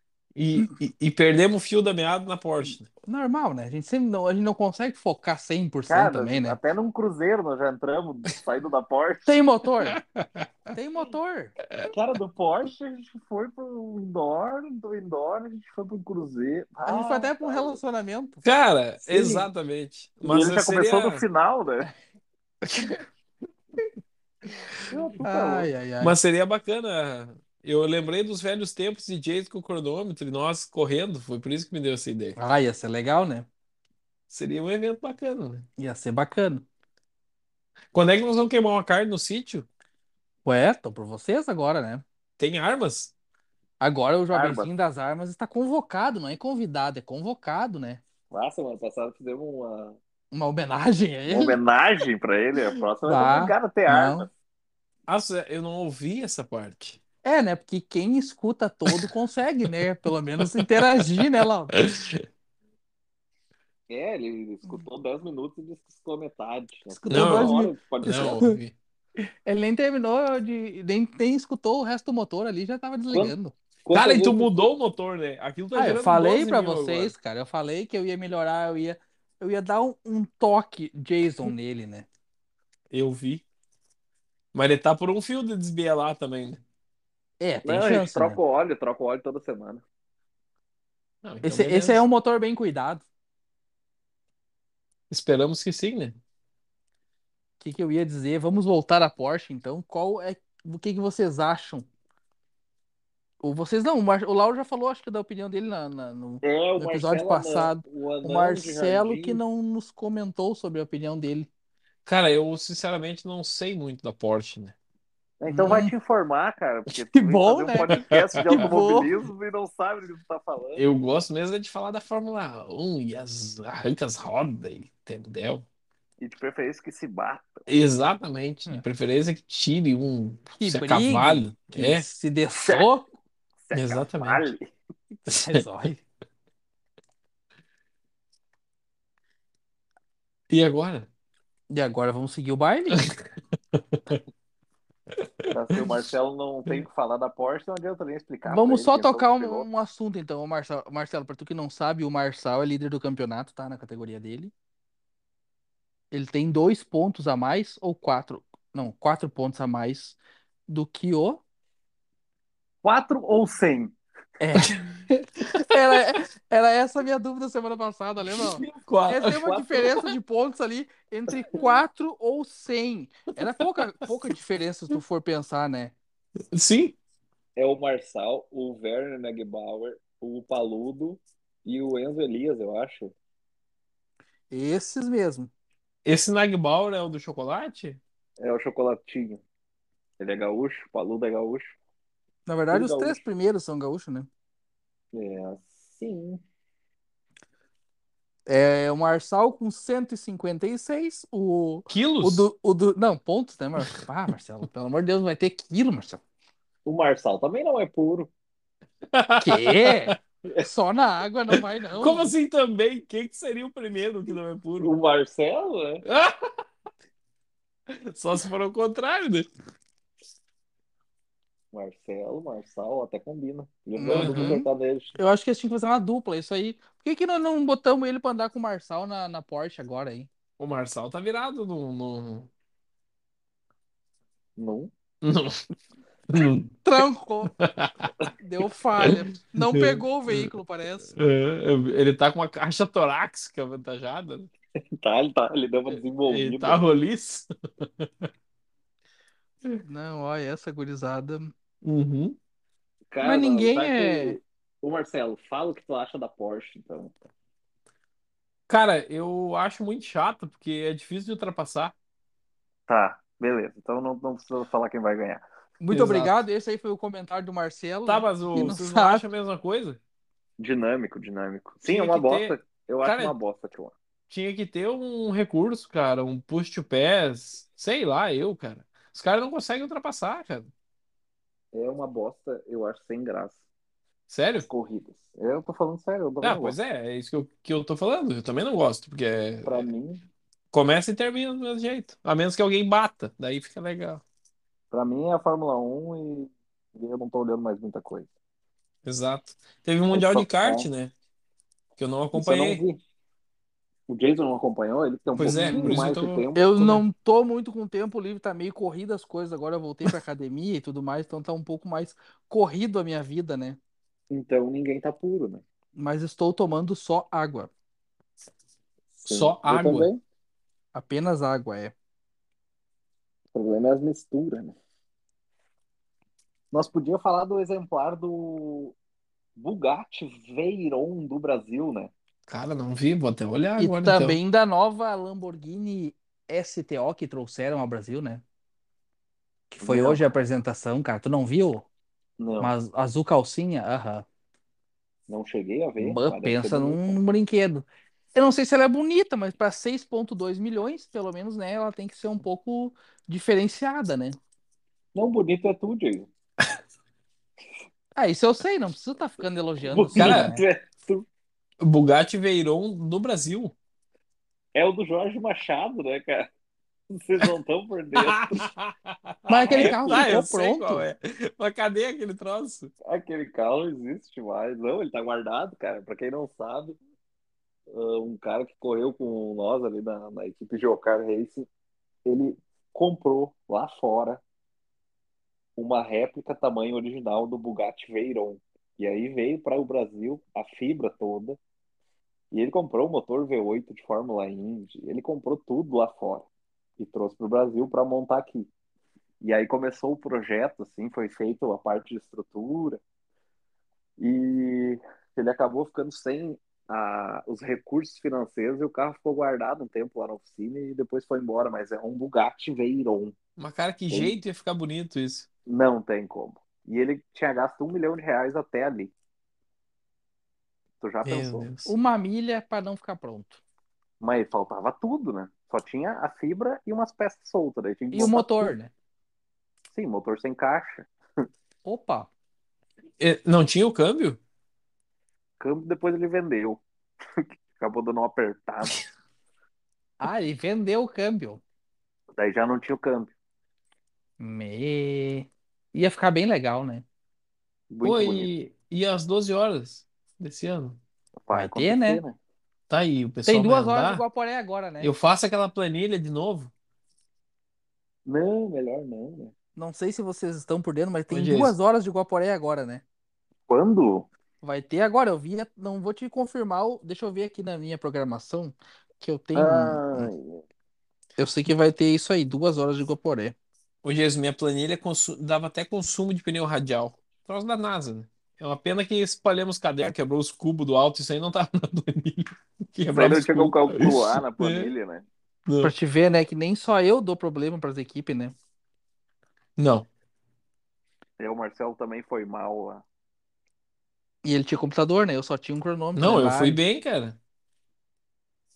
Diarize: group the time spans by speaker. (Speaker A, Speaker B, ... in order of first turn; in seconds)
Speaker A: 0.3-2.9, 9.9-10.5, 18.4-21.2, 22.6-23.0, 26.0-32.4, 34.3-35.6, 37.9-39.7, 42.4-43.1, 55.1-57.0, 60.4-62.2, 67.0-68.7, 73.9-77.1, 82.9-83.4, 84.5-86.6, 91.2-92.0, 95.1-96.2, 112.0-114.7, 117.9-118.4, 120.8-125.6, 127.7-132.1, 133.7-134.4, 135.3-135.6, 140.5-141.1, 143.7-144.2, 145.1-146.0, 168.3-170.1, 176.5-176.9, 186.0-188.0, 201.9-202.5, 209.1-210.2, 211.5-214.9, 216.0-216.4, 217.9-219.5, 224.0-224.6, 230.6-232.5, 235.2-235.6, 236.3-236.7, 237.6-238.1, 239.0-240.5, 241.2-244.5, 246.3-248.3, 251.8-252.4, 258.7-261.9, 265.9-266.4, 268.1-270.0, 271.8-273.3, 274.3-280.7, 284.3-284.7, 286.4-289.9, 290.7-294.2, 299.0-301.1, 302.0-302.8, 305.3-307.0, 319.3-320.1, 332.5-334.4, 360.1-360.5, 361.8-363.7, 368.1-372.9, 413.6-415.5, 421.2-421.9, 433.2-434.4, 448.0-451.0, 452.9-454.2, 455.0-456.7, 461.3-461.7, 474.0-484.9, 485.6-485.9, 489.8-490.1, 496.1-497.4
Speaker B: 3.0-6.6, 9.3-10.0, 10.7-11.6, 16.8-18.4, 25.2-26.1, 32.4-33.5, 35.8-36.6, 40.4-42.0, 43.8-48.0, 50.3-51.6, 53.0-54.3, 57.2-61.7, 67.1-68.6, 69.4-73.5, 75.7-82.0, 87.4-88.4, 91.4-93.0, 97.6-101.9, 103.4-111.5, 115.5-115.9, 117.1-119.1, 130.6-133.1, 135.2-136.0, 141.7-143.0, 148.4-154.5, 156.1-161.4, 164.4-175.9, 184.5-185.5, 192.4-194.3, 198.5-206.2, 209.4-212.3, 224.0-230.3, 236.8-237.6, 238.4-241.2, 249.8-251.5, 253.2-254.4, 265.8-269.2, 305.5-306.0, 306.6-313.8, 315.9-317.7, 320.9-321.9, 333.8-338.4, 339.7-341.9, 342.6-344.2, 346.0-354.4, 358.1-360.6, 369.5-371.0, 421.8-423.6, 428.1-428.9, 431.8-432.3, 440.2-441.6, 444.4-447.0, 451.5-452.2, 453.4-455.1, 459.8-463.0, 464.6-470.3, 471.4-473.6, 485.8-488.5, 494.4-496.8
Speaker C: 5.9-9.4, 11.9-17.8, 19.0-19.5, 20.2-21.9, 24.9-25.7, 44.3-44.7, 48.3-50.0, 51.3-54.3, 63.9-68.4, 73.1-74.7, 87.6-89.8, 106.4-109.4, 115.4-120.8, 126.2-127.7, 132.6-132.8, 133.7-134.6, 145.5-149.7, 162.8-163.9, 177.6-183.1, 188.4-189.4, 190.2-191.8, 192.7-193.2, 195.1-196.4, 206.8-208.3, 214.8-216.0, 221.7-225.2, 234.6-234.9, 244.9-246.8, 253.1-257.1, 262.9-265.4, 270.6-273.9, 281.7-283.6, 284.6-286.8, 289.6-290.2, 294.9-298.3, 300.1-300.9, 302.3-303.0, 304.1-306.8, 314.3-315.6, 319.2-320.2, 323.5-324.8, 326.7-328.9, 329.6-332.1, 339.8-340.2, 342.4-342.7, 345.3-347.1, 355.1-356.3, 359.9-361.2, 364.7-366.5, 367.1-368.7, 369.5-370.3, 373.0-377.0, 377.9-381.7, 382.2-384.4, 385.8-391.6, 392.5-398.7, 399.4-403.0, 404.2-413.3, 414.1-414.4, 415.7-419.1, 421.0-421.7, 424.2-428.7, 429.9-431.1, 435.6-436.8, 437.4-439.0, 442.4-443.3, 447.9-448.5, 451.4-452.4, 458.2-459.5, 463.7-464.3, 469.5-470.6, 483.1-485.2, 491.4-493.0